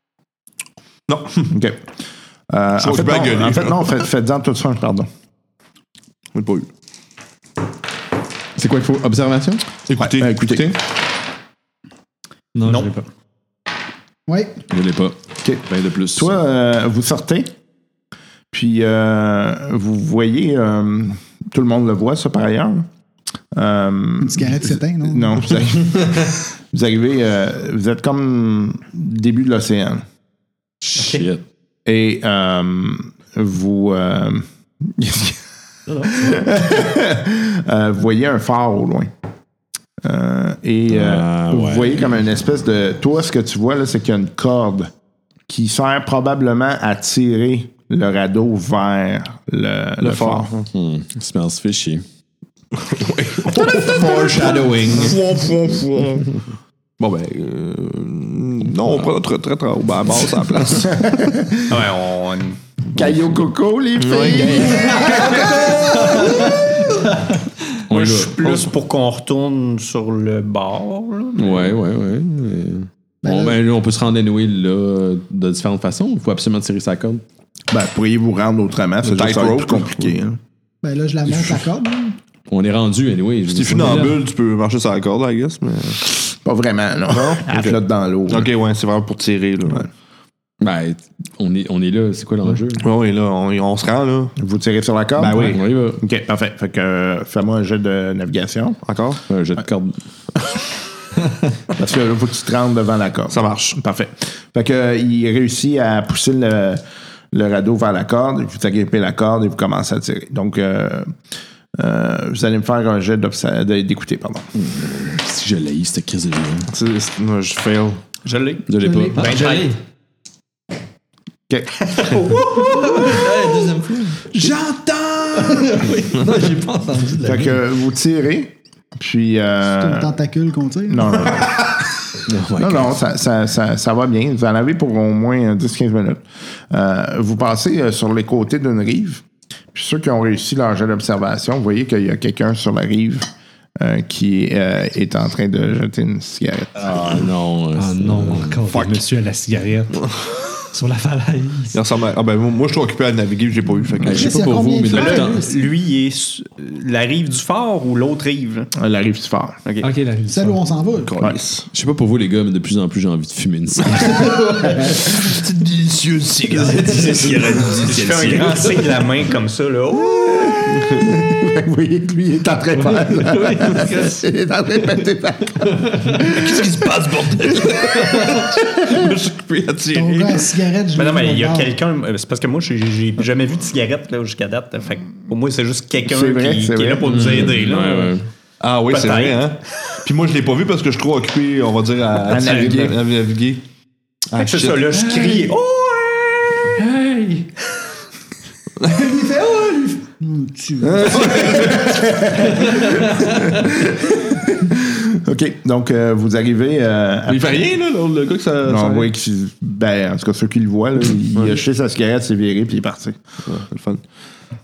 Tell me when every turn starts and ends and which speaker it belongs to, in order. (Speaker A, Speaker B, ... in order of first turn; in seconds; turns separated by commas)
Speaker A: 1.1-1.6, Speaker B: 1.5-1.8, Speaker B: 2.5-5.1, Speaker A: 2.8-3.9, Speaker A: 6.3-6.7, Speaker C: 8.6-9.7, Speaker A: 9.9-10.8, Speaker B: 10.0-10.7, Speaker D: 12.6-12.9, Speaker E: 12.6-13.0, Speaker F: 14.3-14.6, Speaker C: 14.7-16.4, Speaker B: 16.1-17.5, Speaker B: 18.5-22.9, Speaker B: 23.5-30.0, Speaker F: 24.2-25.7, Speaker C: 30.8-31.4, Speaker E: 31.0-31.2, Speaker B: 31.8-35.4, Speaker D: 35.9-36.2, Speaker B: 36.0-39.1, Speaker B: 40.0-44.9, Speaker C: 40.9-42.1, Speaker B: 45.5-50.5, Speaker A: 50.0-50.7, Speaker C: 50.7-52.0, Speaker A: 52.8-56.4, Speaker C: 53.6-55.2, Speaker A: 57.0-61.0, Speaker B: 60.8-61.7, Speaker E: 61.7-62.6, Speaker B: 62.9-66.8, Speaker A: 64.0-64.5, Speaker C: 64.3-65.2, Speaker C: 67.9-68.7, Speaker E: 67.9-71.8, Speaker C: 71.3-77.2, Speaker F: 73.2-73.6, Speaker B: 77.7-80.4, Speaker A: 79.0-80.1, Speaker F: 80.8-82.2, Speaker C: 82.5-84.2, Speaker A: 83.5-86.0, Speaker B: 86.3-88.5, Speaker A: 87.1-89.9, Speaker C: 90.6-92.8, Speaker A: 92.8-94.3, Speaker B: 94.4-98.8, Speaker C: 95.2-96.0, Speaker A: 98.8-99.2, Speaker C: 99.3-100.0, Speaker B: 101.8-111.1, Speaker A: 103.3-103.8, Speaker B: 111.8-114.5, Speaker C: 114.5-116.7, Speaker A: 116.7-118.0, Speaker E: 118.2-119.7, Speaker C: 118.7-119.4, Speaker D: 118.8-119.8, Speaker E: 121.8-123.2, Speaker D: 122.5-127.6, Speaker B: 127.2-130.1, Speaker F: 129.8-131.3, Speaker B: 130.9-131.8, Speaker C: 132.2-132.9, Speaker B: 132.6-146.9, Speaker C: 146.8-148.6, Speaker D: 147.8-150.0, Speaker A: 148.7-149.0, Speaker D: 150.7-151.8, Speaker A: 151.7-154.3, Speaker C: 154.0-155.5, Speaker F: 154.1-155.6, Speaker E: 154.9-158.7, Speaker B: 158.7-159.6, Speaker D: 159.8-160.6, Speaker F: 160.3-161.1, Speaker A: 161.0-161.7, Speaker C: 161.7-164.3, Speaker A: 163.9-168.6, Speaker D: 164.6-165.0, Speaker D: 166.6-167.8, Speaker E: 167.9-170.6, Speaker B: 170.2-176.7, Speaker D: 172.8-174.2, Speaker D: 175.6-176.2, Speaker A: 176.2-180.5, Speaker D: 178.1-178.5, Speaker F: 179.9-181.8, Speaker E: 180.9-188.2, Speaker B: 186.0-187.1, Speaker C: 187.0-188.2, Speaker A: 188.6-193.6, Speaker E: 188.9-189.9, Speaker B: 192.2-193.0, Speaker A: 194.3-194.9, Speaker E: 194.3-196.8, Speaker D: 196.8-197.5, Speaker A: 198.8-199.1, Speaker F: 198.9-202.2, Speaker B: 200.8-207.7, Speaker A: 201.1-201.6, Speaker A: 207.3-209.1, Speaker B: 208.6-213.2, Speaker A: 211.3-211.6, Speaker A: 213.5-214.0